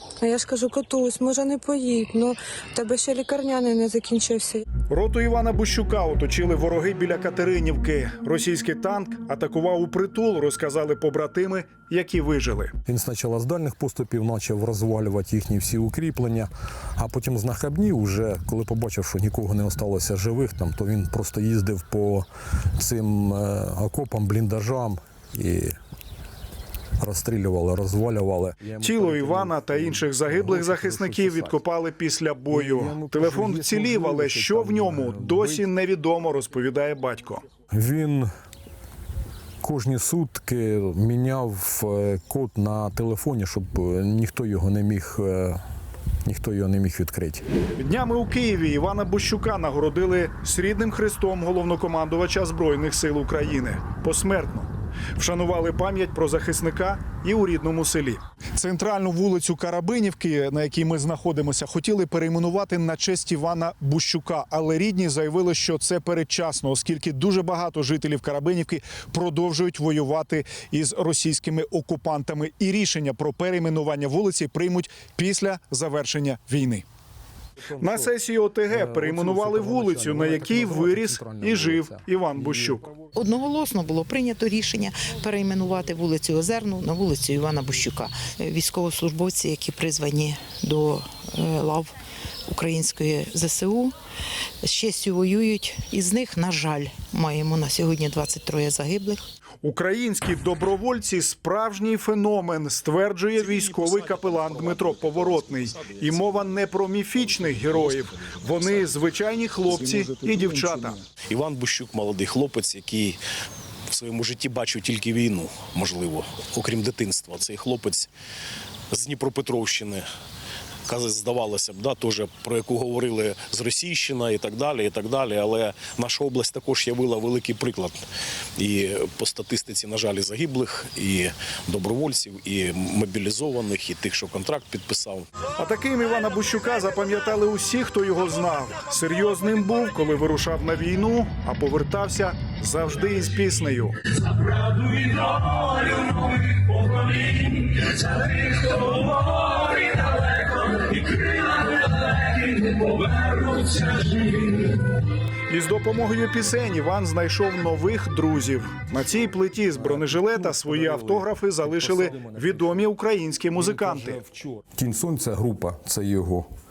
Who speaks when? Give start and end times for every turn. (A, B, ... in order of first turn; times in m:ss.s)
0:00.2-0:04.6 A
0:04.9-0:12.8 B
0:12.9-0:22.2 C
0:22.8-0:25.8 C
0:27.0-0:31.6 C
0:28.8-0:37.4 B
0:32.5-0:35.7 C
0:37.7-0:38.3 C
0:39.6-0:45.6 C
0:46.2-0:47.4 C
0:47.8-1:16.8 B
1:17.7-1:18.1 C
1:17.8-1:22.8 B
1:18.7-1:22.9 C
1:23.1-1:31.9 D
1:32.5-1:33.9 D
1:34.6-1:39.2 D
1:39.6-1:51.0 B
1:51.3-1:53.2 E
1:53.9-1:58.1 E
1:58.9-2:00.1 E
2:00.8-2:08.0 E
2:08.6-2:15.3 E
2:15.6-2:24.0 B
2:25.0-2:25.9 E
2:35.5-2:44.2 B
2:39.7-2:42.9 C
2:43.5-2:46.5 C